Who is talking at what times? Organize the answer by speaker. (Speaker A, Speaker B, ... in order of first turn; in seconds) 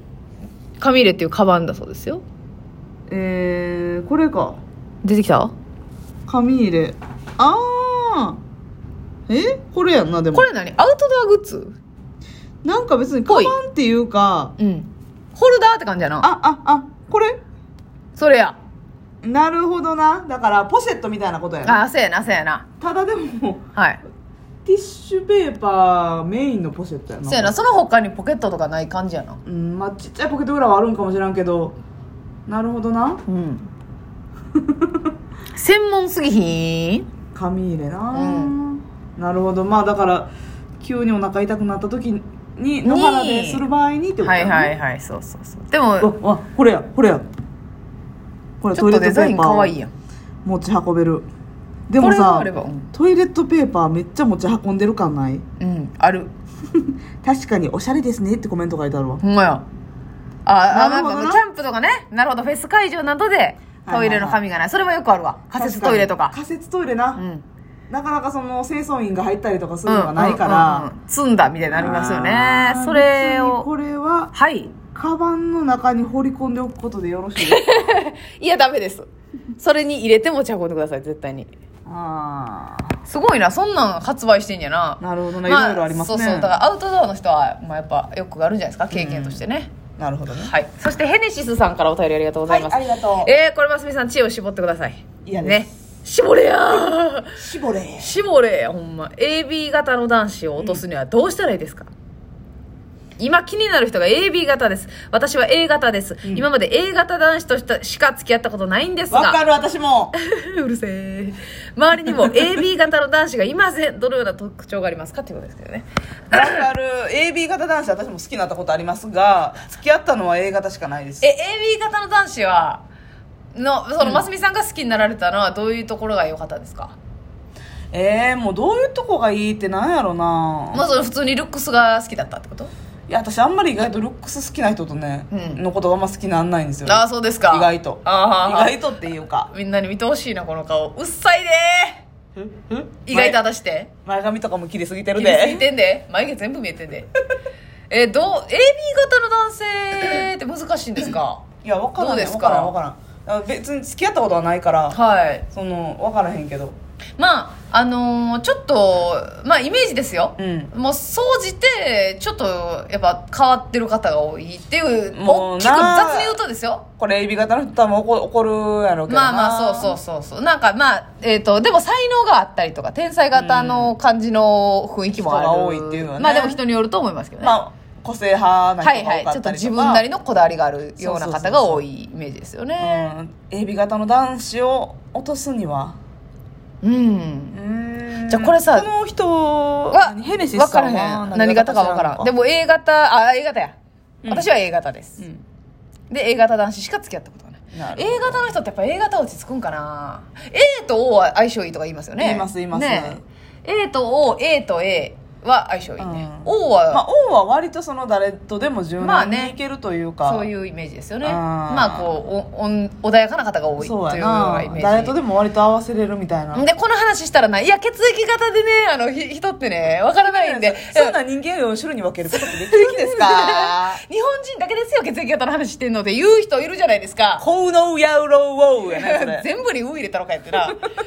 Speaker A: 0.8-2.2, 5.0-5.5, 10.3-11.8, 13.3-13.5, 14.6-16.3, 18.1-18.6, 21.6-22.6, 23.7-24.0, 27.2-29.4, 33.3-33.7, 35.5-37.1, 38.1-38.5, 42.8-43.6, 44.2-46.1, 48.7-49.9, 52.0-52.9, 55.6-56.3, 59.2-59.6, 60.5-66.3, 67.2-67.4, 69.8-73.7, 74.3-74.7, 77.4-81.5, 83.0-89.7, 90.4-97.4, 98.0-101.9, 103.2-109.4, 110.2-116.6, 121.2-122.8, 123.5-127.0, 130.7-132.7, 135.3-135.6, 136.8-138.8, 139.5-142.0, 143.1-143.9, 145.2-147.1, 147.9-151.4, 152.0-152.7, 154.9-155.4, 157.2-166.8, 169.1-177.6, 178.8-183.1, 186.8-187.6, 188.3-188.9, 189.9-193.8, 194.3-195.2, 196.1-207.0, 209.0-209.5, 210.2-215.2, 216.5-221.1, 222.3-227.4, 228.9-230.9
Speaker B: 3.1-4.6, 6.3-8.4, 9.3-10.5, 12.6-14.5, 16.2-17.4, 19.2-21.8, 22.8-23.6, 24.6-27.5, 29.4-31.8, 32.5-33.2, 34.6-35.1, 37.3-44.7, 46.0-47.2, 48.6-49.8, 50.4-51.3, 51.9-55.4, 57.2-59.2, 60.7-61.4, 63.8-64.4, 65.5-67.2, 67.9-70.9, 71.7-74.3, 74.9-77.6, 81.8-83.0, 85.0-86.5, 88.9-89.4, 90.0-90.5, 92.5-93.3, 95.2-95.7, 97.4-98.1, 109.1-110.1, 116.3-121.3, 127.9-130.8, 133.1-139.5, 142.4-143.4, 144.0-145.7, 151.6-155.0, 155.5-156.8, 160.4-160.7, 165.1-166.4, 167.0-169.9, 173.3-173.9, 175.1-176.6, 177.4-180.0, 181.0-181.8, 182.8-186.0, 187.5-192.3, 197.7-198.5, 202.2-203.2, 206.0-210.5, 211.2-212.2, 213.8-216.6, 220.2-224.0, 227.4-229.4